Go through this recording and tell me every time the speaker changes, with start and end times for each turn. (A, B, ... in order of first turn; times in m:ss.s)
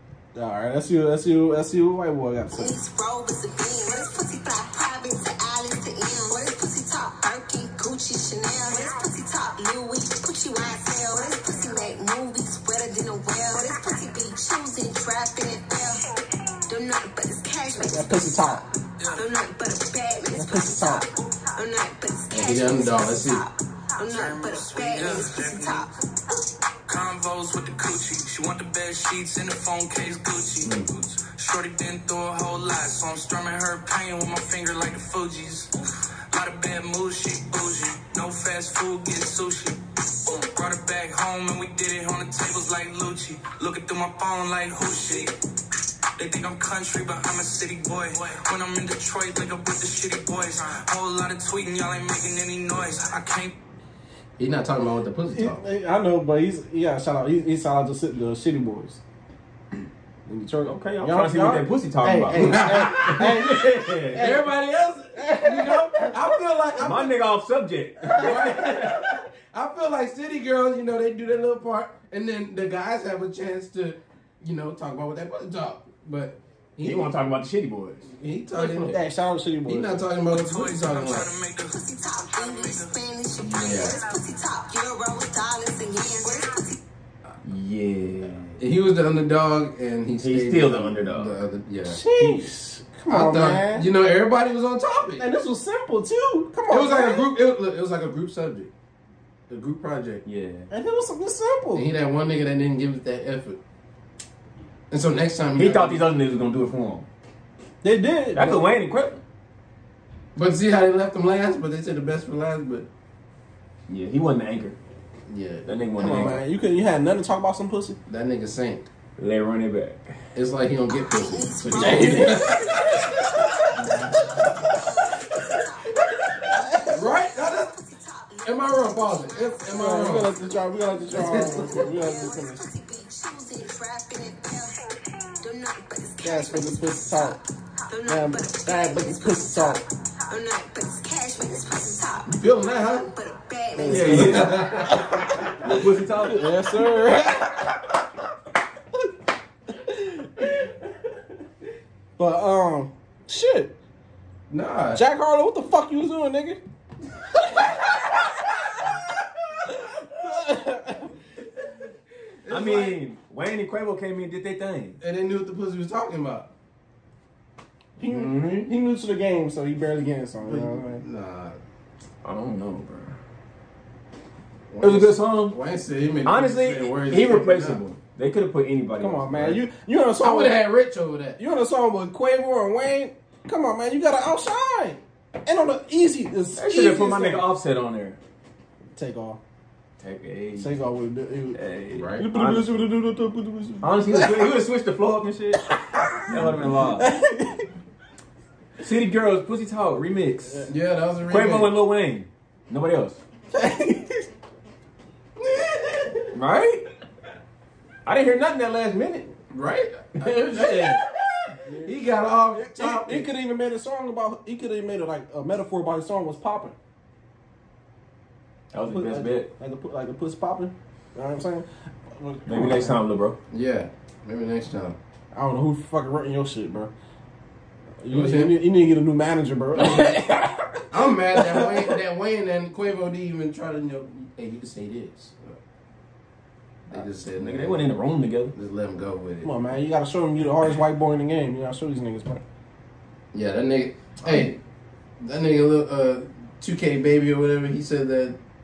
0:00.3-0:02.7 A
0:02.5-0:16.0 B
0:16.7-0:25.9 B
0:17.7-0:18.6 A
0:19.0-0:19.2 C
0:20.3-0:21.1 A
0:22.3-0:23.4 D
0:24.0-0:25.9 C
0:26.9-0:35.7 C
0:30.6-0:30.9 D
0:36.3-0:45.3 C
0:46.2-0:53.5 C
0:54.4-0:55.6 D
0:55.3-0:59.0 A
1:00.2-1:04.4 A
1:00.6-1:04.4 E
1:02.4-1:03.4 D
1:04.1-1:07.2 D
1:05.2-1:06.1 A
1:06.8-1:08.9 E
1:08.1-1:17.1 D
1:16.8-1:18.1 E
1:18.0-1:19.0 D
1:18.5-1:20.0 A
1:19.6-1:21.3 D
1:20.3-1:23.0 C
1:21.7-1:26.8 B
1:23.4-1:24.0 D
1:27.4-1:28.6 E
1:28.6-1:32.0 D
1:30.2-1:31.4 E
1:31.8-1:33.9 A
1:33.1-1:35.2 D
1:35.1-1:37.3 A
1:36.7-1:38.7 D
1:39.5-1:40.2 D
1:40.2-1:40.7 E
1:40.7-1:41.9 A
1:41.7-1:43.6 D
1:44.9-1:46.1 D
1:45.6-1:47.1 E
1:47.8-1:48.6 A
1:48.3-1:49.2 E
1:50.4-1:52.9 D
1:53.9-1:54.8 E
1:55.3-1:56.4 D
1:55.6-1:56.4 E
1:56.0-1:58.0 A
1:58.0-1:58.9 D
1:59.2-2:00.0 E
2:00.3-2:03.1 D
2:00.9-2:02.7 B
2:01.7-2:02.8 A
2:03.3-2:14.8 B
2:03.8-2:04.1 D
2:06.5-2:07.1 A
2:06.9-2:07.7 D
2:08.4-2:10.4 D
2:09.7-2:12.7 A
2:11.1-2:12.0 D
2:15.4-2:24.3 B
2:16.2-2:17.4 A
2:18.1-2:19.8 A
2:22.3-2:23.1 D
2:23.8-2:25.3 A
2:23.9-2:24.6 E
2:24.0-2:25.4 D
2:25.6-2:27.0 E
2:26.2-2:27.9 A
2:29.8-2:30.5 A
2:32.2-2:33.7 A
2:34.5-2:35.0 D
2:34.9-2:36.6 A
2:37.6-2:38.2 A
2:39.8-2:41.1 A
2:42.4-2:43.0 D
2:42.5-2:45.0 E
2:45.0-2:46.5 D
2:48.0-2:51.0 A
2:48.1-2:48.6 D
2:50.4-2:51.6 D
2:52.2-2:53.2 E
2:54.7-2:57.8 D
2:54.8-2:55.6 E
2:56.2-2:59.6 E
2:59.0-3:00.6 A
3:00.2-3:01.4 D
3:01.4-3:07.5 A
3:06.5-3:08.2 E
3:08.9-3:09.4 A
3:10.0-3:10.8 E
3:10.6-3:11.6 A
3:11.5-3:12.8 E
3:11.9-3:12.2 D
3:12.2-3:14.5 A
3:13.8-3:15.7 E
3:15.7-3:17.7 A
3:16.2-3:17.1 E
3:18.8-3:20.7 E
3:20.6-3:21.7 D
3:21.3-3:23.2 E
3:23.5-3:24.2 A
3:26.3-3:26.8 E
3:28.0-3:29.3 E
3:29.5-3:31.0 D
3:31.6-3:32.0 A
3:31.8-3:33.3 D
3:32.5-3:36.8 A
3:38.7-3:39.5 E
3:38.8-3:43.0 A
3:42.5-3:43.4 E
3:43.5-3:45.0 D
3:45.3-3:46.9 A
3:48.0-3:50.8 A
3:48.1-3:48.5 D
3:49.7-3:50.2 D
3:50.9-3:55.6 D
3:51.4-3:51.8 A
3:56.9-3:57.9 D
3:56.9-3:58.5 E
3:58.5-3:59.5 D
3:59.4-4:02.4 A
4:03.3-4:04.6 D
4:04.2-4:04.5 E
4:05.2-4:08.4 D